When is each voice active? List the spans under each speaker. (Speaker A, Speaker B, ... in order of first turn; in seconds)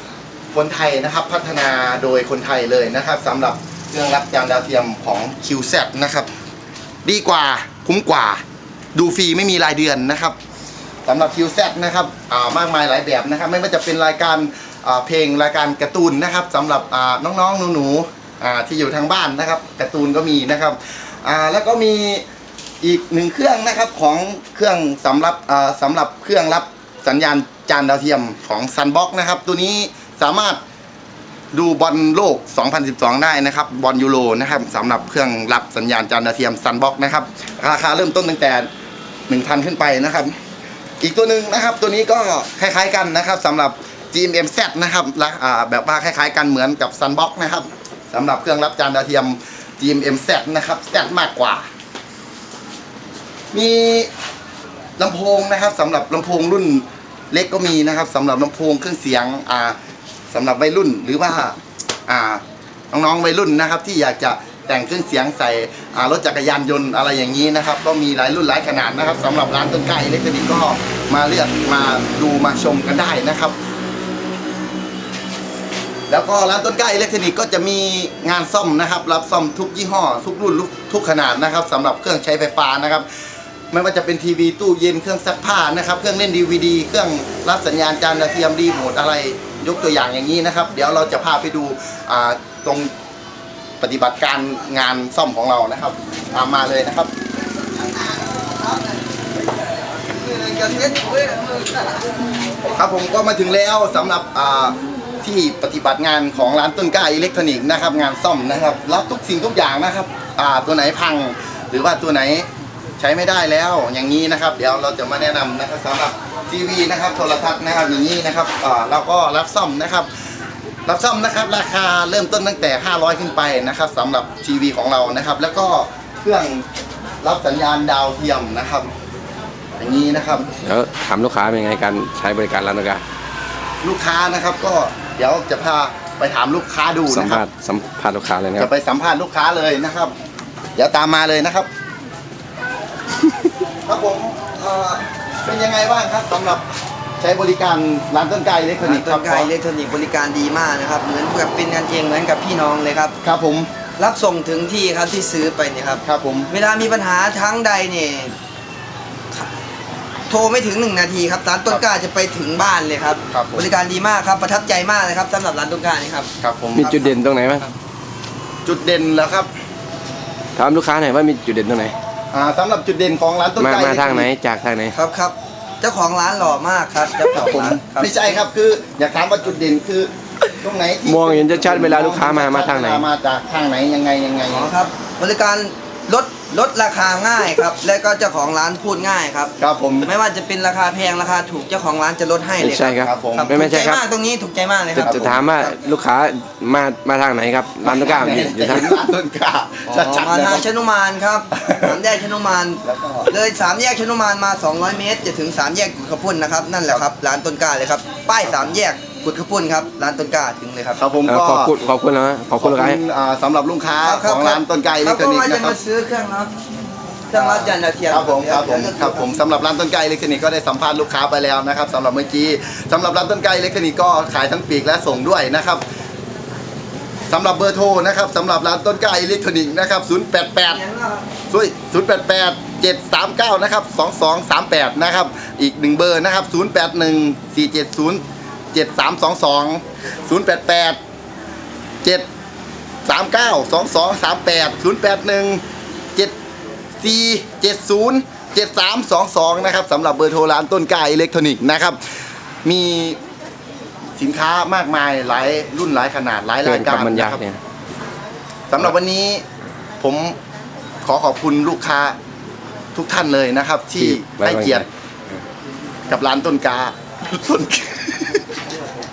Speaker A: 0.5-6.3, 7.0-8.4, 8.9-10.3, 11.1-22.2, 22.8-30.6, 31.5-38.7, 39.3-40.3, 41.0-51.6, 53.5-54.1, 55.0-59.8, 60.3-73.5, 76.1-83.1, 83.7-92.9, 93.8-97.1, 102.6-112.5, 113.0-120.1, 120.8-126.6, 127.2-128.9, 129.8-130.5, 133.8-137.4, 138.6-140.1, 140.8-141.7, 143.8-146.7, 147.2-149.5, 153.2-153.7, 156.0-156.5, 163.3-163.7, 166.4-166.9, 168.6-169.5, 172.3-174.3, 177.3-184.7, 189.6-190.1, 192.8-193.5, 194.9-195.4, 197.8-200.7, 201.6-201.9, 202.8-203.3, 210.9-211.8, 212.6-215.8, 217.3-225.8, 227.3-230.8, 231.5-241.0, 243.1-245.6, 247.0-252.0, 252.6-253.2, 254.2-257.4, 258.7-259.4, 260.0-260.4, 261.0-262.1, 262.9-264.9, 266.1-268.4
Speaker B: 97.5-99.0, 99.8-102.2, 148.8-153.1, 154.0-158.3, 160.3-167.7, 174.9-178.3, 184.5-195.8, 199.9-211.0, 214.0-216.5, 217.3-219.4, 230.7-231.3
Speaker C: 130.6-133.0, 137.1-138.7, 166.8-167.7, 170.6-171.9, 173.6-174.9, 181.0-183.1, 192.6-194.0, 194.9-199.0, 211.2-213.0, 256.6-257.6, 264.0-265.4